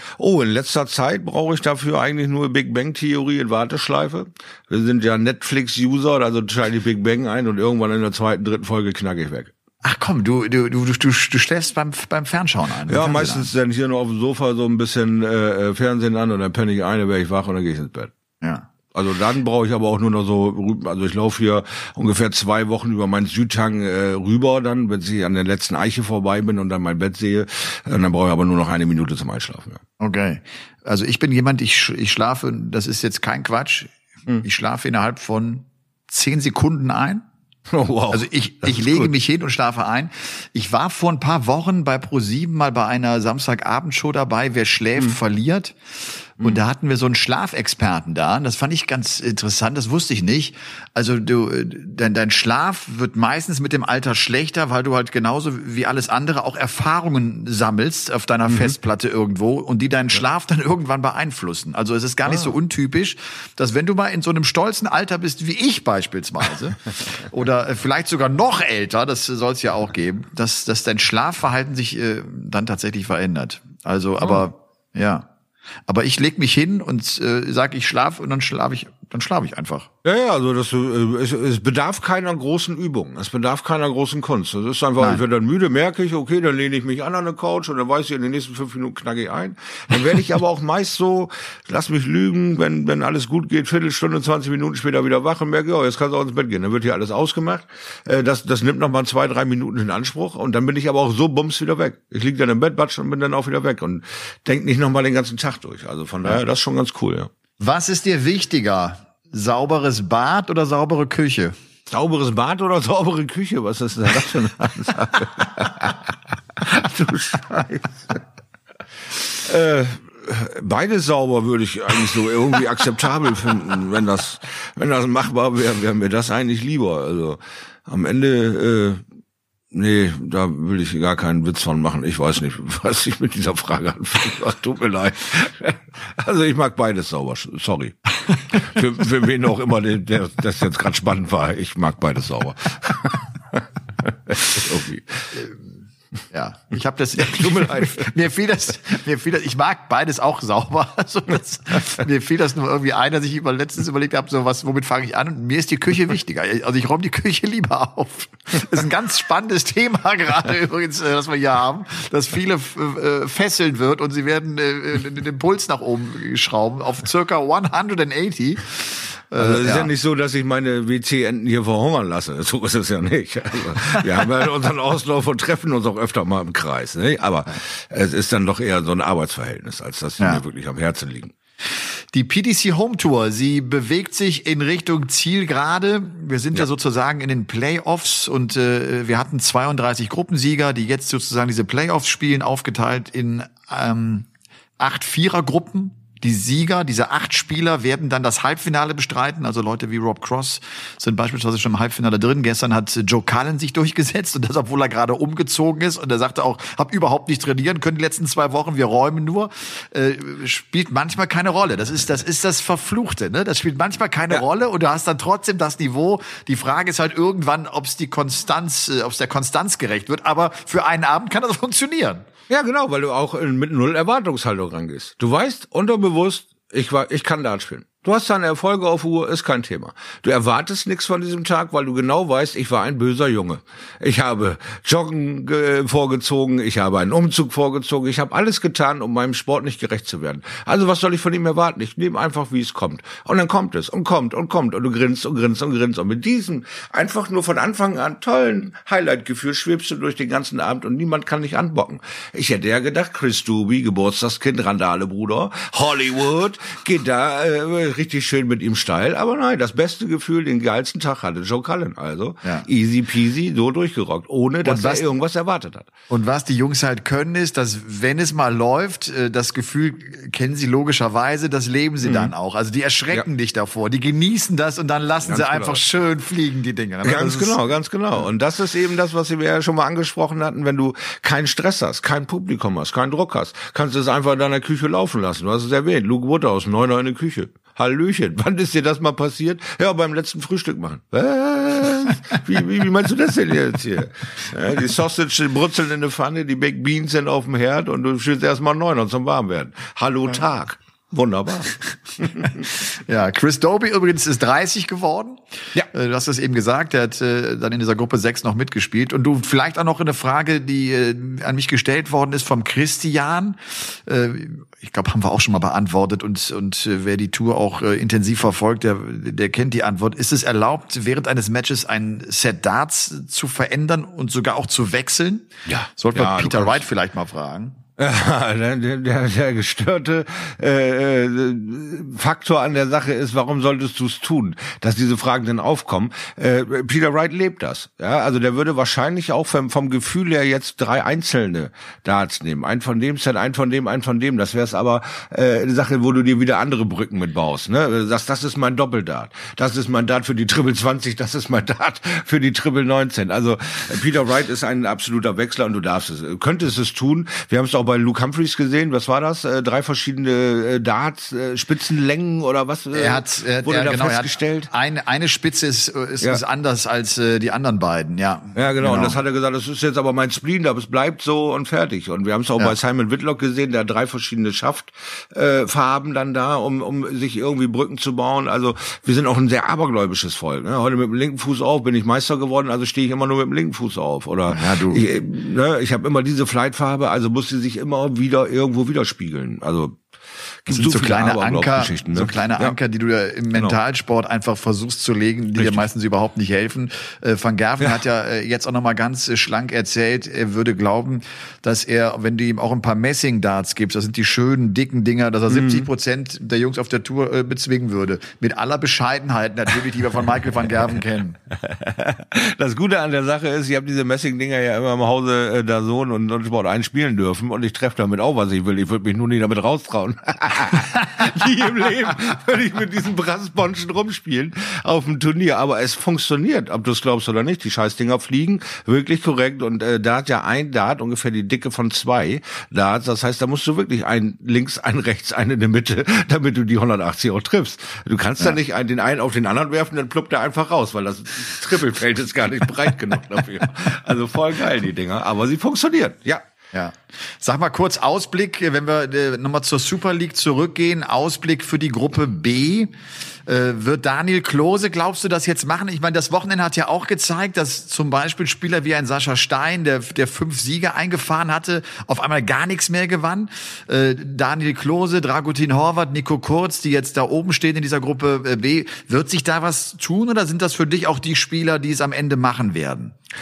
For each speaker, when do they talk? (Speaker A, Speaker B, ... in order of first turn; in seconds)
Speaker A: 0.2-9.5, 12.9-18.1, 18.9-29.8, 37.7-39.1, 80.0-107.3, 111.9-118.2, 119.3-129.0, 129.7-145.3, 147.2-148.1, 169.4-181.3, 222.5-265.9, 272.0-272.3, 275.3-275.8, 277.0-302.6, 325.7-326.8, 328.0-364.7, 368.6-390.0, 390.6-392.8, 395.6-395.8, 405.5-405.9, 411.6-446.4
Speaker B: 9.8-13.5, 30.0-37.2, 38.1-75.3, 75.9-79.9, 107.6-111.5, 146.3-169.9, 182.1-194.3, 194.8-222.2, 264.6-265.0, 266.1-277.6, 302.7-327.8, 362.9-369.2, 384.5-385.0, 390.7-411.4, 446.7-452.9, 453.4-473.1